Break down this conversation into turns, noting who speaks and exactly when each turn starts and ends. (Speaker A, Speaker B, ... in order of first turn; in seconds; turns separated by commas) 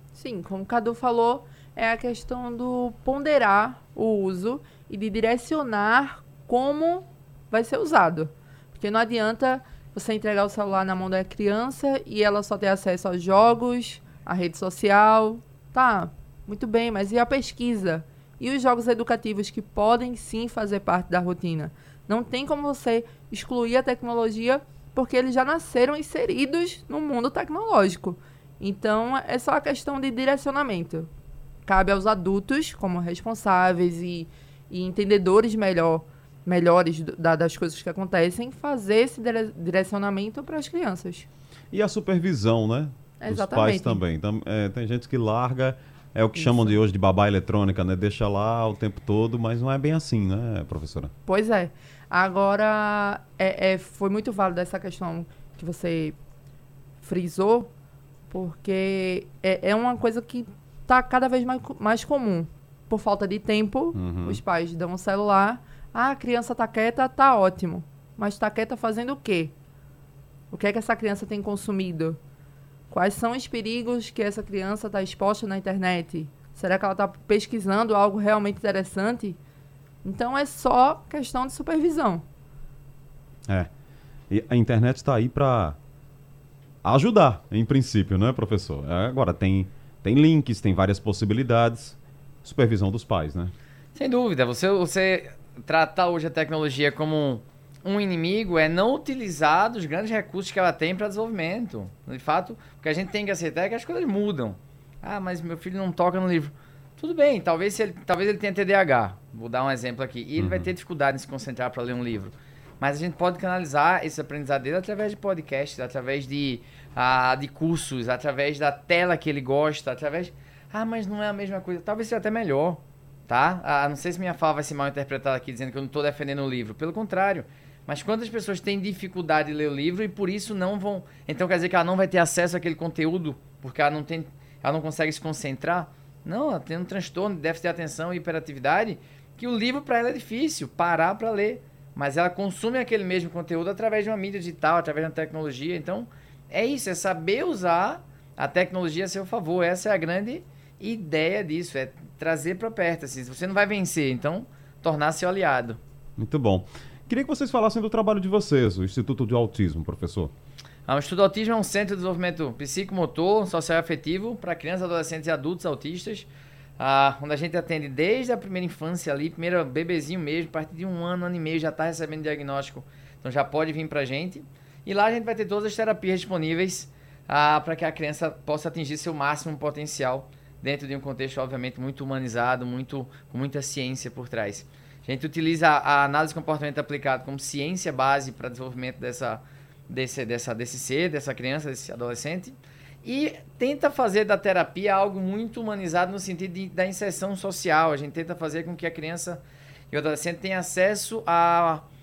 Speaker A: 0.1-31.1, Speaker A: 31.6-41.3, Speaker B: 41.7-51.1, Speaker A: 43.2-44.0, Speaker A: 46.4-46.8, Speaker A: 51.2-56.1, Speaker A: 57.0-57.7, Speaker A: 58.3-69.5, Speaker B: 63.9-64.4, Speaker A: 70.5-72.2, Speaker A: 72.9-79.4, Speaker A: 80.0-82.2, Speaker B: 84.3-85.8, Speaker B: 86.8-93.5, Speaker C: 93.9-155.8, Speaker B: 110.4-110.7, Speaker B: 156.2-160.3, Speaker C: 160.9-166.3, Speaker C: 166.8-201.8